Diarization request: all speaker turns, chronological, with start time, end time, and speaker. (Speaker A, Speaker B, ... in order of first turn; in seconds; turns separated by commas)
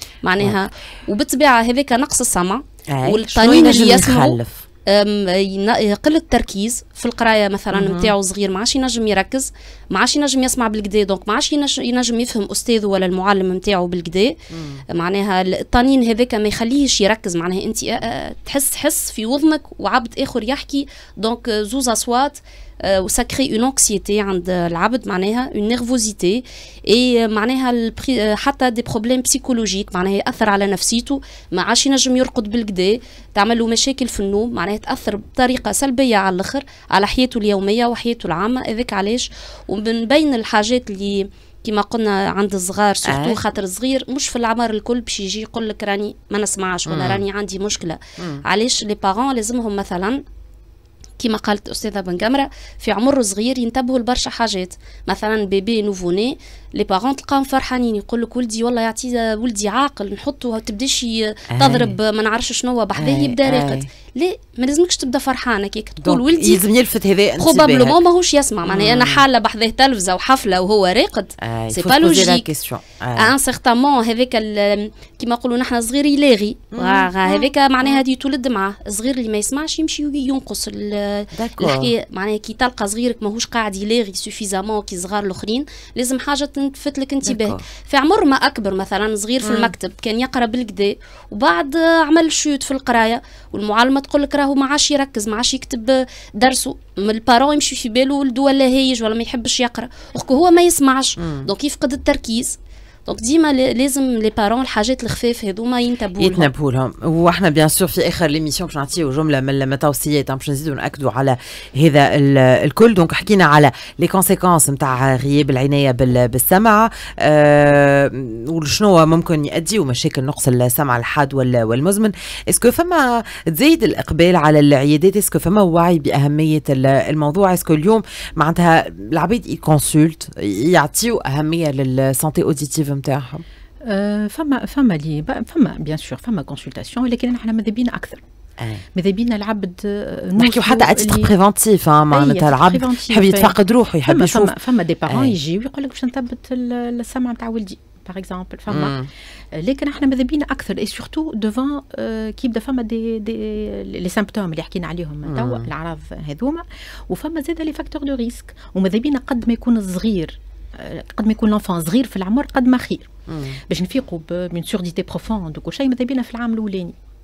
Speaker A: 0.2-14.3, Speaker B: 2.9-4.6, Speaker B: 7.7-8.1, Speaker B: 14.5-14.8, Speaker A: 14.9-50.2, Speaker B: 43.0-43.4, Speaker B: 46.9-47.2, Speaker B: 48.2-48.4, Speaker A: 51.2-66.6, Speaker B: 61.5-62.0, Speaker B: 63.0-63.9, Speaker B: 66.0-68.0, Speaker A: 67.4-72.5, Speaker B: 68.7-69.2, Speaker B: 71.4-73.3, Speaker A: 73.2-106.5, Speaker B: 76.7-78.0, Speaker B: 81.3-81.9, Speaker B: 87.2-87.6, Speaker B: 89.4-89.7, Speaker B: 101.2-101.5, Speaker B: 106.2-133.4, Speaker C: 133.8-138.2, Speaker B: 138.6-138.8, Speaker C: 138.9-141.3, Speaker B: 140.4-144.5, Speaker C: 142.1-163.1, Speaker B: 145.1-145.3, Speaker B: 148.7-149.1, Speaker B: 155.2-155.7, Speaker B: 163.3-163.6, Speaker C: 163.7-166.9